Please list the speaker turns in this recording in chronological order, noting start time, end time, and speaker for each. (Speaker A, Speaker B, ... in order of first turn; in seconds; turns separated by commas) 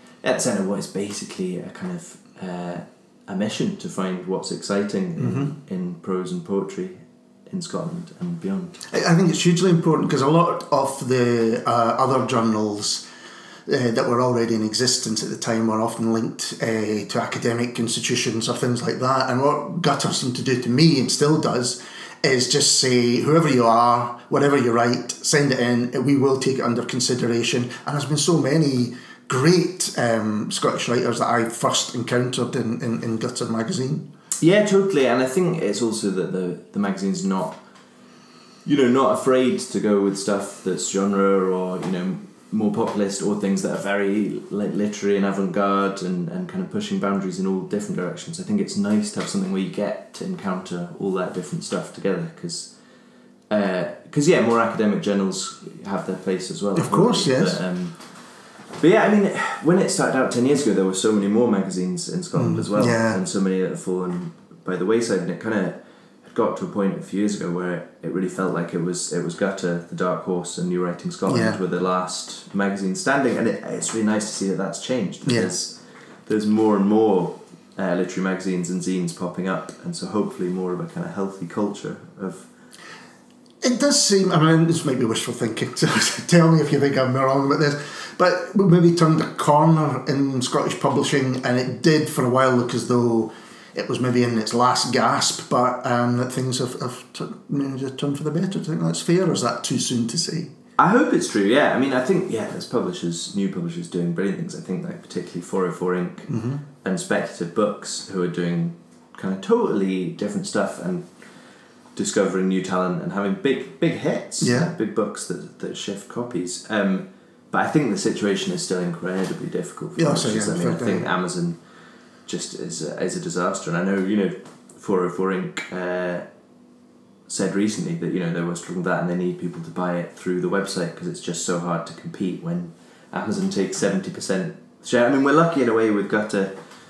Speaker A: 0.2-8.8, Speaker B: 5.2-5.5, Speaker B: 8.9-13.0, Speaker B: 13.7-34.1, Speaker A: 34.4-37.6, Speaker A: 38.7-52.7, Speaker A: 53.5-58.1, Speaker B: 56.8-57.6, Speaker A: 58.8-82.5, Speaker B: 62.4-63.2, Speaker B: 71.3-71.6, Speaker B: 75.2-75.5, Speaker B: 83.6-100.5, Speaker A: 100.8-111.1, Speaker B: 106.3-106.6, Speaker A: 112.0-121.6, Speaker B: 114.4-114.7, Speaker B: 120.0-121.1, Speaker A: 122.2-126.3, Speaker A: 127.3-136.6